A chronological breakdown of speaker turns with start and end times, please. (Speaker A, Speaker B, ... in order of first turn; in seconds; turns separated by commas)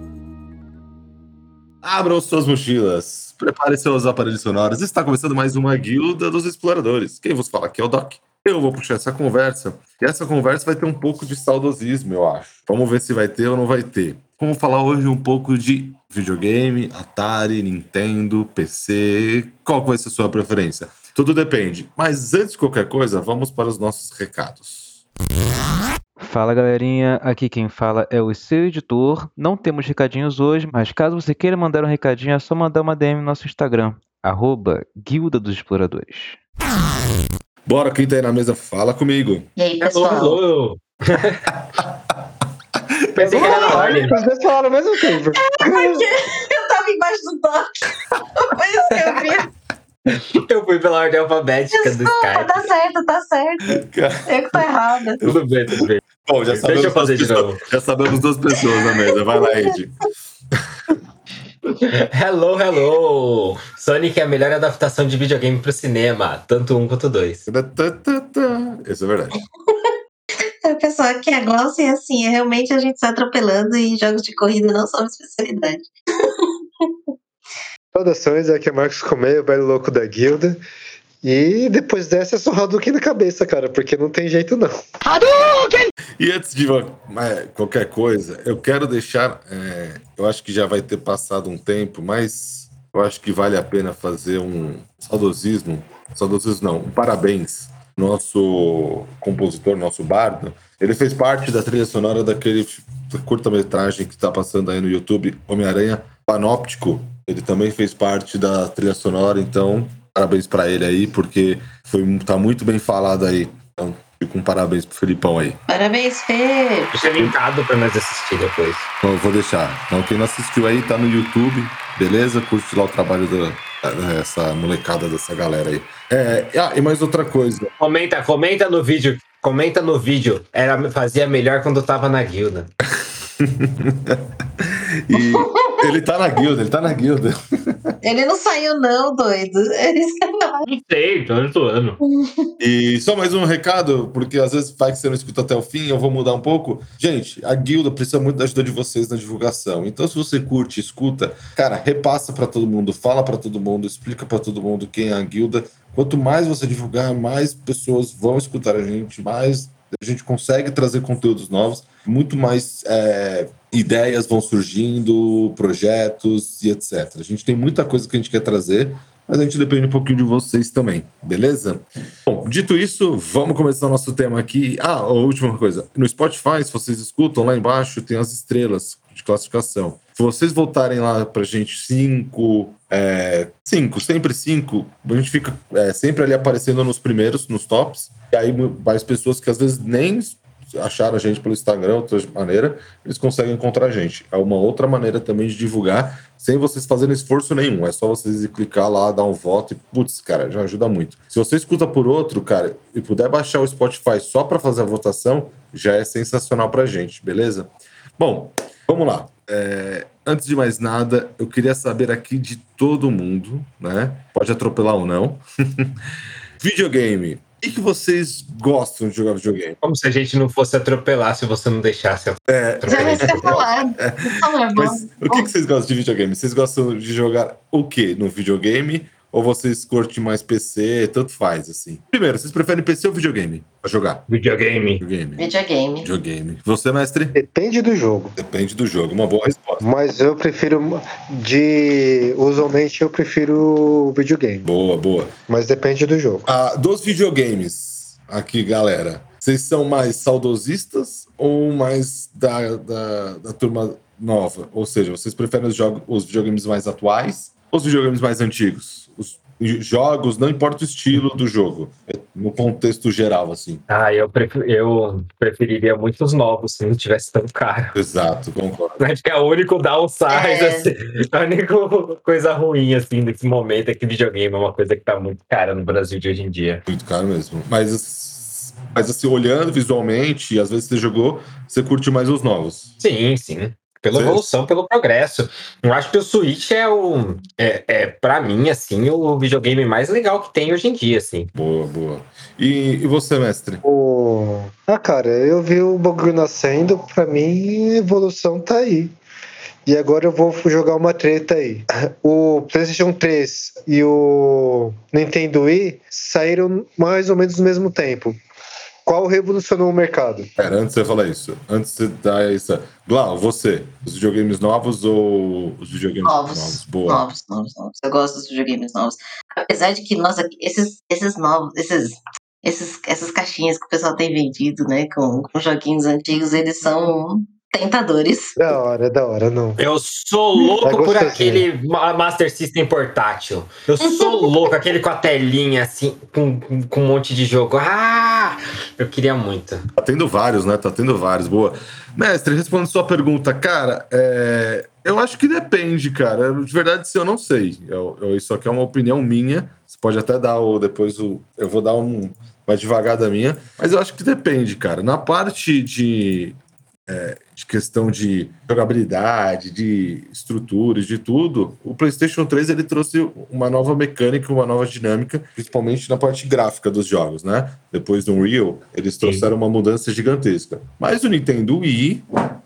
Speaker A: 1.8-25.0, Speaker B: 26.2-36.4, Speaker A: 37.7-39.5, Speaker C: 39.6-40.4, Speaker D: 39.8-41.5, Speaker D: 43.1-44.1, Speaker E: 43.2-46.1, Speaker C: 43.5-44.0, Speaker C: 45.4-49.5, Speaker D: 49.0-49.3, Speaker D: 50.1-52.7, Speaker C: 51.7-55.2, Speaker A: 53.7-54.6, Speaker D: 55.2-57.6, Speaker A: 55.2-59.9, Speaker C: 58.8-59.7, Speaker D: 61.8-67.4, Speaker A: 67.5-69.4, Speaker C: 69.7-76.9, Speaker E: 77.9-80.6, Speaker E: 81.2-84.8, Speaker A: 86.2-115.6, Speaker C: 115.7-116.9, Speaker D: 116.9-118.9, Speaker A: 119.0-127.7, Speaker D: 127.8-132.7, Speaker A: 133.4-137.9, Speaker C: 135.1-135.9, Speaker C: 138.0-140.6, Speaker D: 140.7-142.0, Speaker C: 142.0-142.5, Speaker A: 142.6-216.0, Speaker A: 216.6-219.8, Speaker D: 219.8-223.6, Speaker A: 222.5-234.3, Speaker C: 222.9-225.5, Speaker D: 234.3-235.0, Speaker A: 235.0-237.4, Speaker C: 235.4-236.1, Speaker E: 237.3-238.3, Speaker A: 238.4-239.8, Speaker E: 239.8-244.7, Speaker A: 244.6-245.3, Speaker E: 245.5-246.5, Speaker A: 246.5-263.8, Speaker D: 263.9-267.9, Speaker A: 267.9-269.0, Speaker D: 269.0-276.9, Speaker C: 270.3-270.9, Speaker A: 276.9-282.9, Speaker D: 283.0-291.5, Speaker A: 284.1-284.5, Speaker A: 291.5-293.8, Speaker E: 293.8-299.1, Speaker E: 299.9-308.4, Speaker E: 309.1-310.5, Speaker A: 310.6-317.2, Speaker C: 316.2-328.6, Speaker E: 328.6-329.8, Speaker D: 329.8-339.8, Speaker E: 330.8-331.7, Speaker C: 334.0-334.8, Speaker A: 340.0-356.6, Speaker A: 357.1-372.2, Speaker D: 369.2-369.5